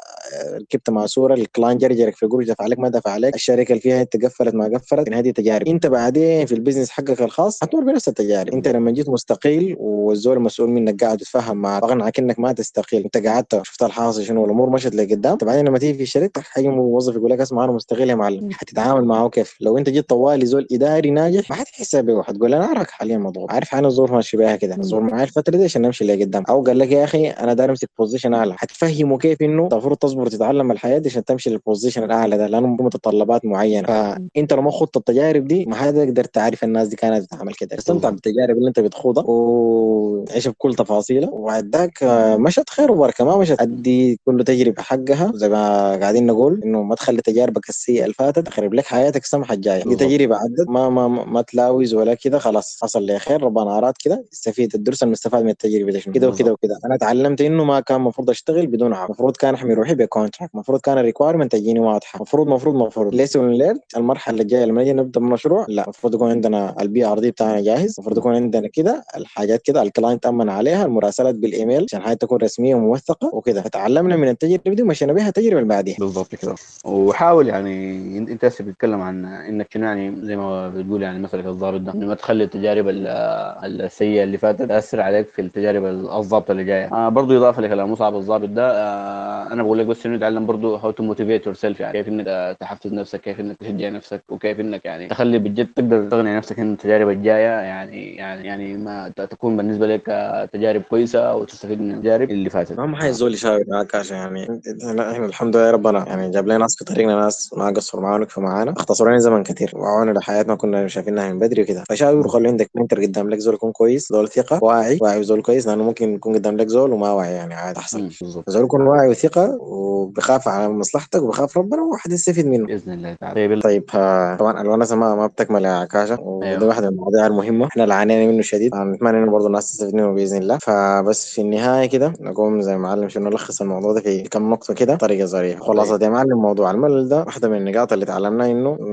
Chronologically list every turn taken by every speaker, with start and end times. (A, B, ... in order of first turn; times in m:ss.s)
0:00.7-1:16.0 A
0:37.8-0:38.1 B
0:49.8-0:50.1 B
0:56.2-0:56.5 B
1:16.0-1:43.2 B
1:42.8-2:02.7 A
1:57.9-1:58.5 B
2:02.7-2:03.6 B
2:03.6-2:18.8 A
2:06.4-2:06.7 B